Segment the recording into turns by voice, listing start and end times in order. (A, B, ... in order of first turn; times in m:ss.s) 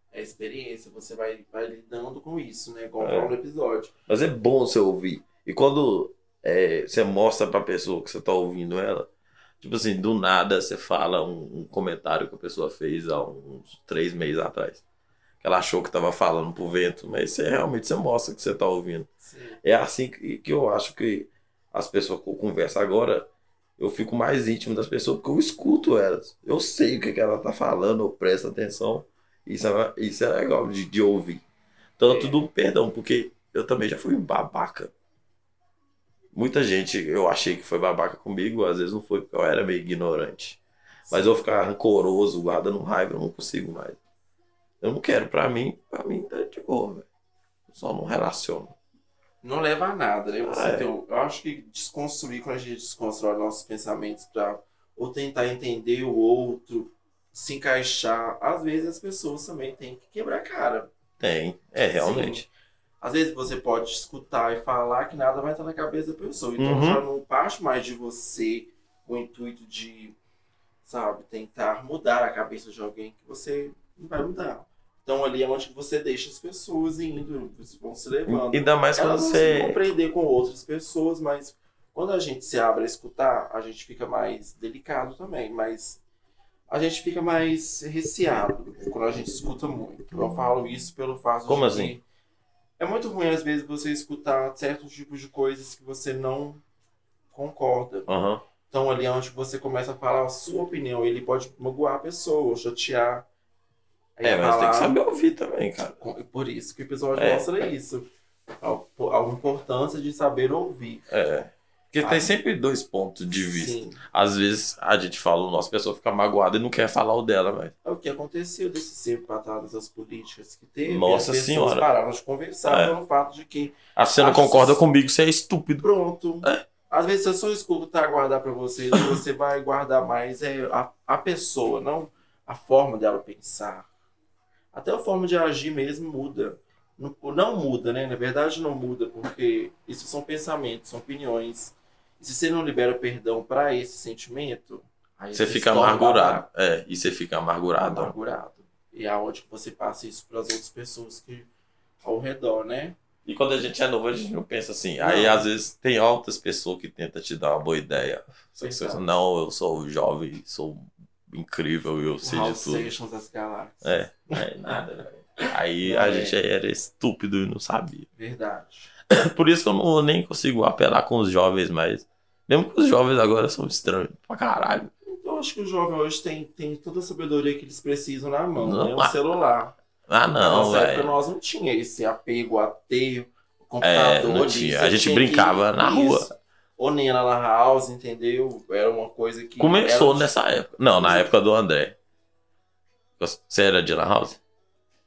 0:00.1-0:03.9 A
0:03.0-0:03.3 B
0:04.1-0:09.1 B
0:09.6-0:14.8 B
0:15.4-0:19.1 B
0:19.2-0:19.6 A
0:19.6-0:23.3 B
0:23.8-0:31.4 B
0:32.0-0:34.9 B
0:32.0-0:32.4 A
0:36.3-0:44.0 B
0:41.0-0:41.4 A
0:44.8-0:47.0 B
0:47.7-0:48.7 B
0:49.4-1:00.9 A
0:50.4-0:50.9 B
1:01.2-1:02.5 B
1:01.9-1:02.4 A
1:03.0-1:10.2 A
1:06.6-1:07.0 B
1:10.8-1:26.0 A
1:18.3-1:19.8 B
1:26.7-1:32.0 A
1:31.5-1:32.0 B
1:32.8-1:36.6 A
1:37.3-1:38.1 A
1:38.1-1:38.4 B
1:38.7-1:43.2 A
1:44.2-1:45.0 A
1:44.2-1:46.0 B
1:46.0-1:48.0 A
1:47.1-1:47.5 B
1:48.6-1:51.1 A
1:51.1-1:57.7 B
1:52.0-1:52.3 A
1:53.4-1:54.0 A
1:57.8-2:04.8 A
2:00.8-2:01.9 B
2:02.7-2:03.0 B
2:04.0-2:05.8 B
2:05.8-2:13.9 A
2:08.9-2:09.2 B
2:14.7-2:26.4 A
2:25.3-2:28.1 B
2:27.9-2:31.5 A
2:32.0-2:33.0 A
2:33.2-2:42.9 B
2:35.0-2:35.5 A
2:38.6-2:39.1 A
2:42.2-2:44.8 A
2:43.8-2:48.0 B
2:45.4-2:46.4 A
2:48.1-2:48.9 A
2:49.1-2:54.9 B
2:55.0-2:59.7 A
2:58.6-2:59.2 B
3:00.1-3:01.1 B
3:00.4-3:10.3 A
3:03.8-3:06.3 B
3:09.6-3:12.0 B
3:10.9-3:11.3 A
3:13.2-3:14.4 B